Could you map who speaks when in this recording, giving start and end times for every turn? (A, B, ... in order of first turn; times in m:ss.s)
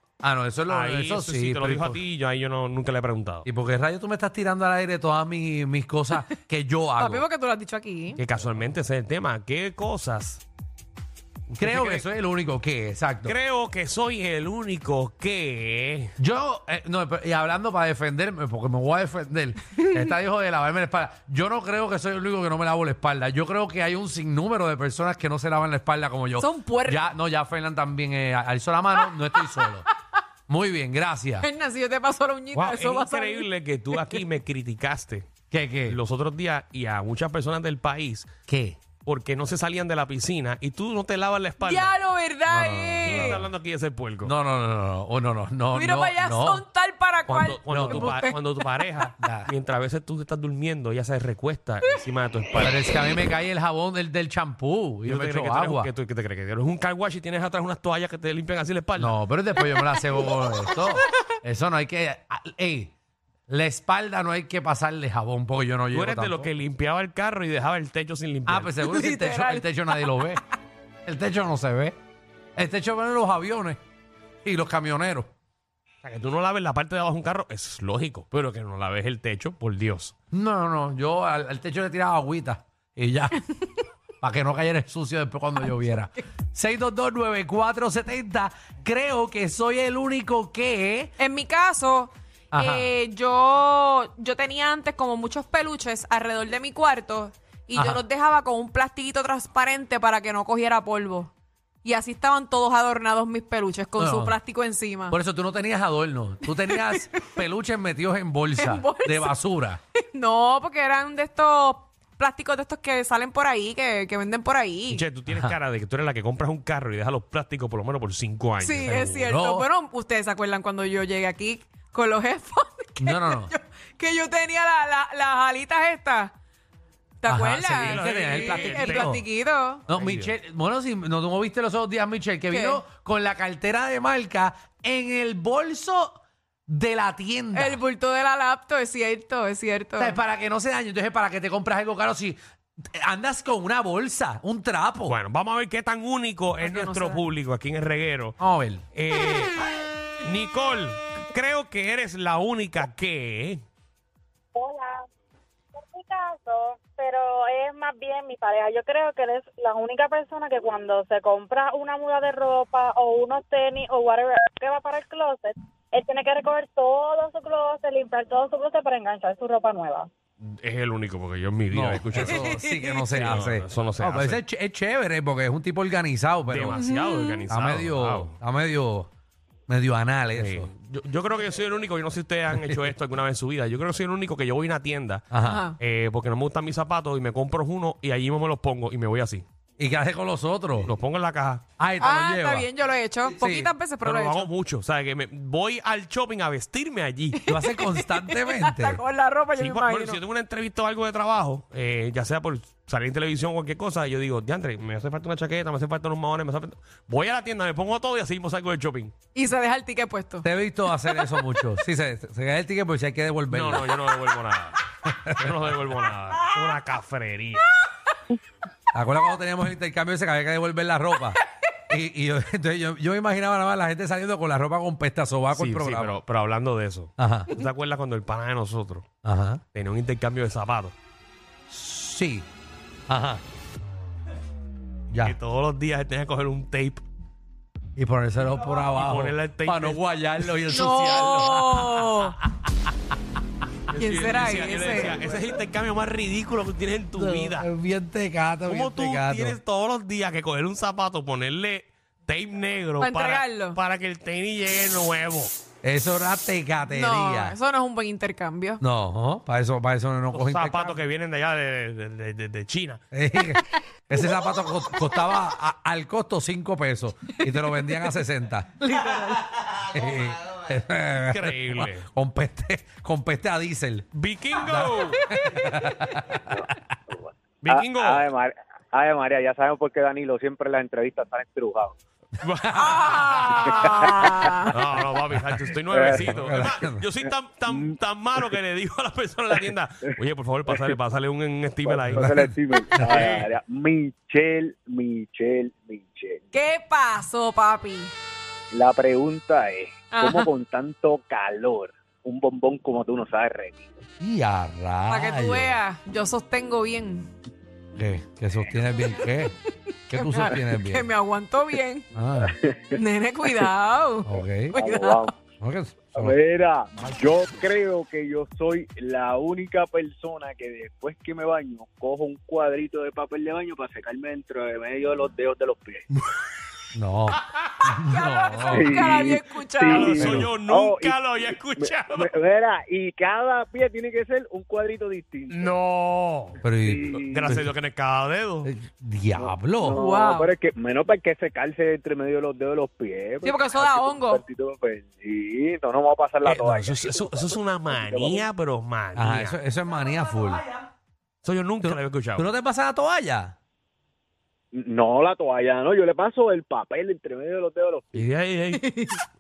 0:00.2-0:02.0 A
0:00.7-0:03.5 B
0:03.5-0:07.2 A
0:07.0-0:08.2 C
0:08.2-0:10.4 B
0:11.5-0:12.1 B
0:11.6-0:13.4 A
0:13.2-0:16.1 B
0:16.2-0:29.8 A
0:26.4-0:27.1 C
0:29.0-0:29.6 C
0:30.5-0:31.5 A
0:31.4-0:34.2 C
0:32.5-0:35.3 B
0:35.5-0:36.0 A
0:35.9-0:38.3 B
0:38.5-0:38.8 A
0:39.0-0:41.9 B
0:41.6-0:43.4 C
0:42.5-0:43.5 A
0:43.0-0:44.3 B
0:44.2-0:46.6 A
0:45.7-0:48.8 C
0:47.3-0:53.0 B
0:47.7-0:48.2 A
0:49.2-0:49.5 A
0:52.6-0:55.9 A
0:55.0-0:59.2 B
0:59.0-1:02.9 A
1:03.5-1:06.5 A
1:05.9-1:08.8 B
1:08.4-1:10.4 A
1:08.8-1:10.4 C
1:11.0-1:12.0 A
1:12.6-1:13.8 A
1:14.4-1:15.3 A
1:16.0-1:20.1 B
1:20.3-1:23.4 A
1:24.2-1:31.1 A
1:31.2-1:41.3 C
1:32.5-1:32.9 A
1:37.8-1:38.0 A
1:41.8-1:45.2 C
1:44.0-1:44.4 A
1:45.1-1:49.8 A
1:46.5-1:47.0 C
1:48.6-1:49.4 C
1:50.0-1:55.0 C
1:54.9-1:59.3 B
1:58.6-2:06.3 C
1:58.8-1:59.7 A
2:03.0-2:03.5 A
2:07.2-2:09.8 C
2:07.3-2:09.2 A
2:07.8-2:09.2 B
2:09.9-2:17.8 A
2:09.9-2:10.4 B
2:12.5-2:12.8 C
2:17.5-2:20.2 C
2:20.0-2:25.2 A
2:25.1-2:28.4 B
2:26.6-2:27.2 C
2:28.4-2:28.8 A
2:28.9-2:29.5 B
2:30.2-2:33.6 B
2:34.5-2:35.0 D
2:35.8-2:50.1 D
2:50.4-2:54.4 B
2:51.7-2:56.8 A
2:52.2-2:53.0 C
2:56.4-2:58.4 B
2:56.7-2:57.5 C
2:57.5-2:59.1 A
2:59.7-3:00.7 A
3:00.3-3:09.4 B
3:02.5-3:02.9 A
3:05.3-3:05.7 A
3:05.4-3:05.8 C
3:09.8-3:10.9 A
3:10.8-3:11.6 B
3:11.8-3:12.7 A
3:12.0-3:14.5 C
3:13.2-3:13.7 A
3:14.0-3:17.4 B
3:17.4-3:20.2 C
3:17.5-3:19.0 A
3:19.6-3:29.1 B
3:29.3-3:30.5 C
3:30.4-3:34.0 A
3:33.5-3:34.8 B
3:35.1-3:35.4 A
3:35.4-3:37.7 B
3:38.9-3:46.2 A
3:45.5-3:49.1 B
3:47.2-3:47.6 A
3:49.2-3:49.6 A
3:49.7-3:50.9 B
3:51.7-3:52.5 A
3:53.1-3:53.4 A
3:55.1-3:55.4 A
3:55.2-3:57.0 B
3:58.0-4:02.9 A
3:58.8-4:00.4 B
4:00.7-4:02.4 C
4:03.9-4:07.7 B
4:03.9-4:05.2 C
4:07.2-4:09.6 A
4:08.7-4:15.5 B
4:13.0-4:13.8 C
4:15.8-4:17.6 A
4:16.9-4:18.8 C
4:18.8-4:21.0 A
4:20.3-4:23.0 B
4:23.1-4:36.3 A
4:27.5-4:27.9 C
4:31.3-4:32.1 B
4:34.1-4:35.2 B
4:36.4-4:41.9 E
4:37.6-4:38.3 B
4:42.4-4:44.1 B
4:42.8-4:44.7 C
4:44.7-4:52.4 B
4:45.9-4:46.4 E
4:46.2-4:47.0 A
4:47.7-4:47.9 E
4:50.7-4:50.9 E
4:51.8-4:56.4 E
4:52.1-4:53.2 A
4:52.9-4:53.5 B
4:56.5-4:58.1 C
4:58.7-5:03.9 E
5:00.1-5:00.5 C
5:04.2-5:05.8 A
5:05.1-5:07.3 C
5:08.0-5:09.6 A
5:10.1-5:11.1 A
5:10.1-5:12.1 C
5:12.1-5:12.5 A
5:12.4-5:13.6 E
5:12.9-5:15.3 C
5:14.2-5:14.8 A
5:14.8-5:15.3 E
5:15.6-5:16.4 A
5:16.2-5:26.1 E
5:26.9-5:29.2 A
5:28.1-5:30.2 C
5:28.7-5:35.8 E
5:29.9-5:32.3 B
5:30.2-5:30.5 A
5:35.5-5:38.7 B
5:36.6-5:37.7 A
5:36.8-5:37.6 E
5:38.6-5:40.0 A
5:39.4-5:48.4 E
5:40.0-5:40.5 C
5:43.4-5:44.4 C
5:46.4-5:49.6 B
5:49.1-5:50.6 A
5:51.4-5:52.5 B
5:51.8-5:53.6 A
5:54.7-5:58.2 E
5:58.1-5:58.8 B
5:58.8-5:59.2 C